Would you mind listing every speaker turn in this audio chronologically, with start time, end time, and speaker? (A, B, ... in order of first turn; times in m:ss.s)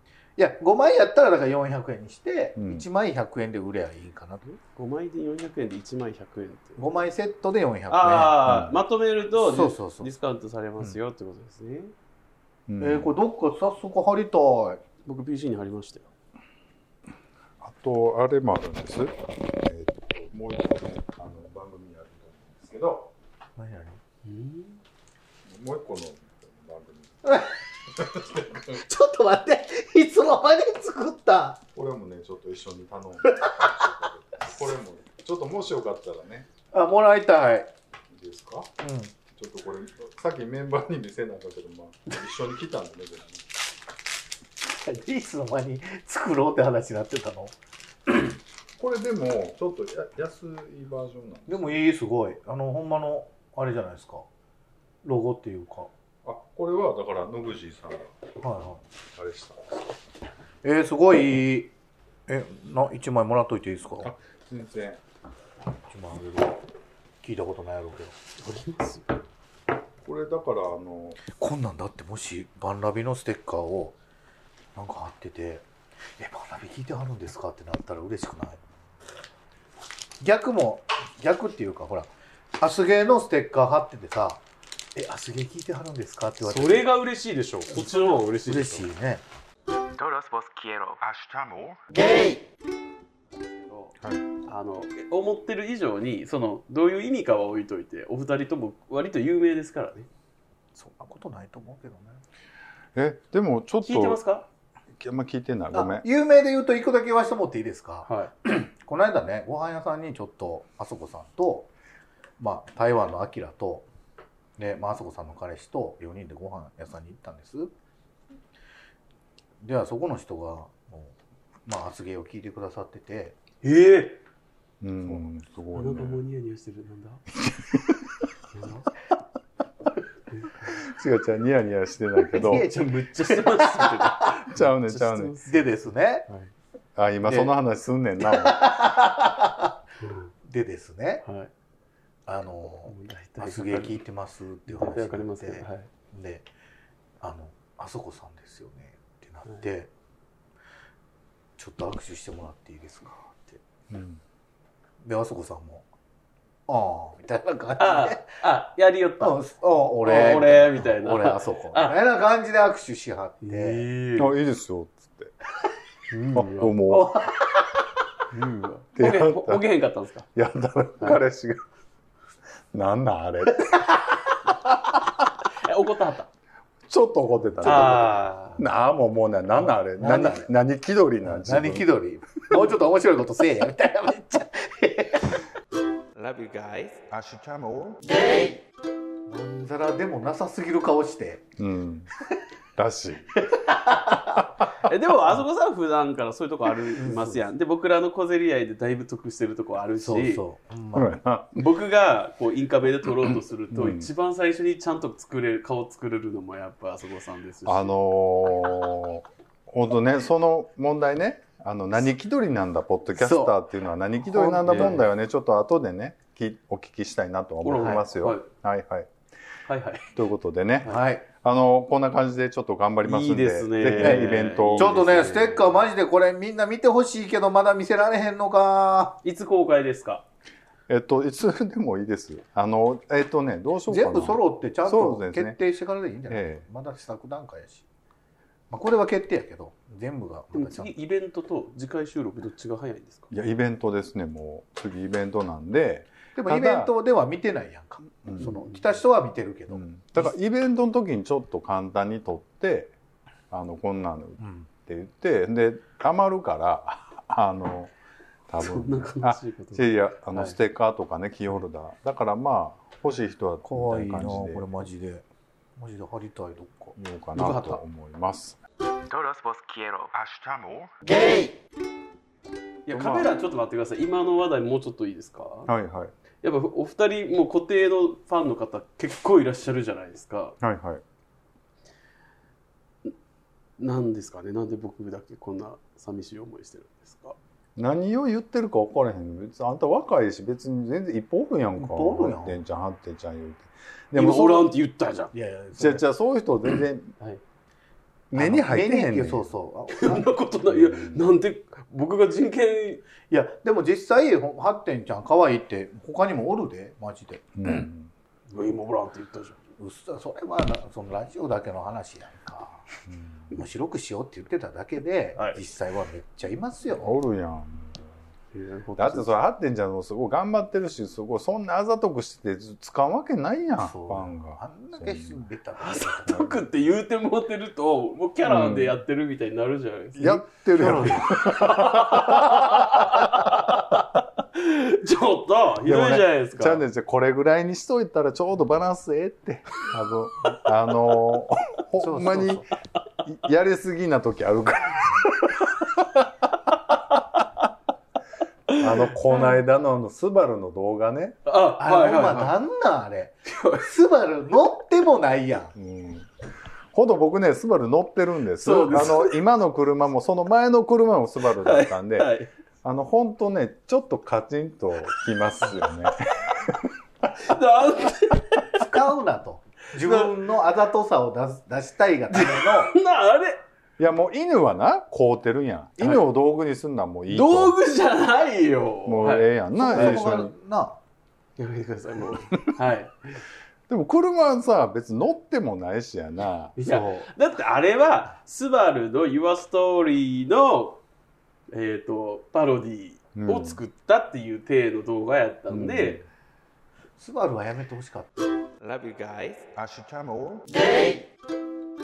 0:00.4-0:04.4 A
0:02.6-0:02.8 B
0:04.4-0:06.8 C
0:06.8-0:08.4 A
0:07.9-0:11.9 C
0:08.5-0:08.8 B
0:09.3-0:10.1 A
0:12.7-0:13.1 B
0:12.8-0:14.8 A
0:15.1-0:16.1 C
0:17.6-0:23.1 B
0:23.6-0:24.0 A
0:24.2-0:24.8 C
0:25.5-0:27.2 B
0:27.2-0:27.5 A
0:28.0-0:28.8 B
0:28.7-0:31.6 A
0:31.8-0:36.5 B
0:33.3-0:33.9 A
0:36.7-0:37.7 A
0:38.1-0:38.7 B
0:38.8-0:39.2 A
0:39.3-0:43.5 B
0:44.6-0:47.6 A
0:48.8-0:51.7 B
0:51.5-0:54.2 A
0:55.0-0:55.9 A
0:56.2-0:58.1 B
0:58.4-0:58.8 A
0:59.1-0:59.6 B
1:00.6-1:01.7 A
1:02.3-1:04.1 A
1:04.0-1:05.0 B
1:05.9-1:06.6 A
1:07.2-1:08.2 A
1:08.4-1:09.2 C
1:10.0-1:11.2 B
1:11.3-1:14.0 A
1:14.8-1:15.6 A
1:16.2-1:18.6 A
1:20.2-1:24.4 A
1:25.0-1:26.8 A
1:26.4-1:28.9 C
1:27.7-1:29.2 A
1:30.0-1:31.0 D
1:31.0-1:31.8 B
1:33.3-1:40.1 C
1:40.8-1:42.2 A
1:43.0-1:44.2 B
1:43.8-1:44.5 C
1:45.0-1:46.0 B
1:45.7-1:51.7 A
1:48.0-1:48.3 C
1:52.4-1:53.8 A
1:54.6-1:57.7 A
1:59.6-2:01.1 A
2:01.7-2:03.4 A
2:03.6-2:04.2 C
2:04.8-2:06.2 B
2:05.7-2:07.2 C
2:07.5-2:08.0 B
2:08.5-2:08.8 C
2:10.7-2:12.7 B
2:12.3-2:14.4 A
2:12.4-2:15.6 C
2:14.5-2:15.3 B
2:15.5-2:16.3 A
2:17.0-2:18.7 B
2:17.2-2:17.5 C
2:18.3-2:19.7 A
2:20.0-2:20.3 C
2:20.4-2:21.2 A
2:21.2-2:21.5 C
2:22.3-2:26.5 A
2:22.9-2:24.0 C
2:24.7-2:25.9 C
2:27.2-2:29.9 A
2:31.6-2:33.6 A
2:33.9-2:34.2 B
2:35.0-2:35.8 A
2:36.7-2:38.4 A
2:37.8-2:39.3 C
2:39.2-2:43.8 A
2:40.0-2:42.0 C
2:43.4-2:44.3 C
2:44.2-2:45.3 B
2:46.1-2:46.7 C
2:46.3-2:47.1 B
2:46.8-2:47.8 A
2:48.3-2:50.3 C
2:49.0-2:49.7 B
2:50.3-2:51.6 B
2:52.7-2:53.9 B
2:53.6-2:54.0 A
2:55.5-2:56.3 C
2:56.9-3:01.9 B
2:57.6-2:58.6 C
2:57.7-2:58.0 A
3:00.0-3:00.5 A
3:01.3-3:05.5 A
3:06.2-3:06.9 D
3:07.1-3:08.2 B
3:09.3-3:11.4 A
3:11.6-3:12.1 B
3:12.8-3:13.4 B
3:13.4-3:14.4 A
3:14.8-3:20.4 C
3:16.9-3:17.4 A
3:20.0-3:21.2 A
3:20.9-3:21.6 B
3:21.6-3:27.9 C
3:23.7-3:24.1 B
3:27.6-3:39.1 B
3:33.2-3:33.6 A
3:34.2-3:35.0 A
3:34.7-3:35.0 C
3:37.6-3:38.5 C
3:37.8-3:38.0 A
3:39.7-3:40.1 C
3:40.1-3:45.1 B
3:40.8-3:41.2 A
3:43.0-3:45.8 C
3:44.0-3:49.2 A
3:49.2-3:50.2 C
3:50.9-3:55.6 B
3:53.9-3:57.8 A
3:56.3-3:56.6 B
3:58.7-4:00.9 A
4:00.5-4:03.3 C
4:03.3-4:06.9 B
4:06.3-4:09.8 A
4:08.2-4:08.5 B
4:08.4-4:08.7 C
4:09.7-4:12.9 B
4:13.5-4:17.9 B
4:14.4-4:14.7 A
4:18.5-4:24.6 B
4:18.6-4:20.6 C
4:23.6-4:25.2 A
4:25.8-4:27.0 A
4:27.0-4:28.6 B
4:27.4-4:27.8 C
4:29.1-4:30.1 D
4:30.1-4:31.0 B
4:32.9-4:35.7 C
4:32.9-4:33.3 B
4:35.7-4:36.1 B
4:36.4-4:40.6 C
4:40.6-4:41.0 B
4:43.8-4:47.4 C
4:47.8-4:54.7 B
4:51.8-4:52.6 A
4:54.1-4:55.3 C
4:55.3-4:56.0 A
4:55.8-4:57.1 B
4:58.3-4:59.5 B
4:58.3-5:00.3 A
4:59.9-5:03.0 C
5:00.7-5:01.4 B
5:03.3-5:07.8 A
5:07.6-5:08.1 B
5:08.5-5:09.6 C
5:09.8-5:12.8 A
5:13.1-5:13.5 B
5:13.5-5:17.1 A
5:17.0-5:18.1 B
5:18.5-5:19.3 C
5:19.0-5:25.4 B
5:23.8-5:26.5 A
5:25.8-5:36.8 C
5:26.3-5:26.6 B
5:28.4-5:29.0 B
5:30.2-5:33.7 B
5:35.8-5:42.6 B
5:42.0-5:42.7 A
5:43.2-5:45.4 B
5:48.7-5:49.5 C
5:48.8-5:51.4 B
5:51.5-5:52.5 C
5:51.8-5:55.7 A
5:53.5-5:53.9 C
5:55.8-5:56.3 B
5:56.9-6:02.3 B
5:58.6-5:59.4 C
6:01.6-6:02.5 C
6:02.8-6:06.9 B
6:07.4-6:08.8 C
6:08.8-6:12.9 A
6:10.0-6:10.3 C
6:12.3-6:13.6 C
6:14.0-6:17.8 B
6:17.3-6:20.2 C
6:19.1-6:20.5 B
6:19.8-6:21.0 A
6:21.6-6:23.4 C
6:23.9-6:26.8 B
6:26.8-6:31.0 C
6:26.8-6:27.3 A
6:31.7-6:36.2 C
6:33.4-6:33.8 B
6:35.7-6:36.2 B
6:37.2-6:38.4 A
6:38.8-6:39.6 D
6:39.7-6:40.8 B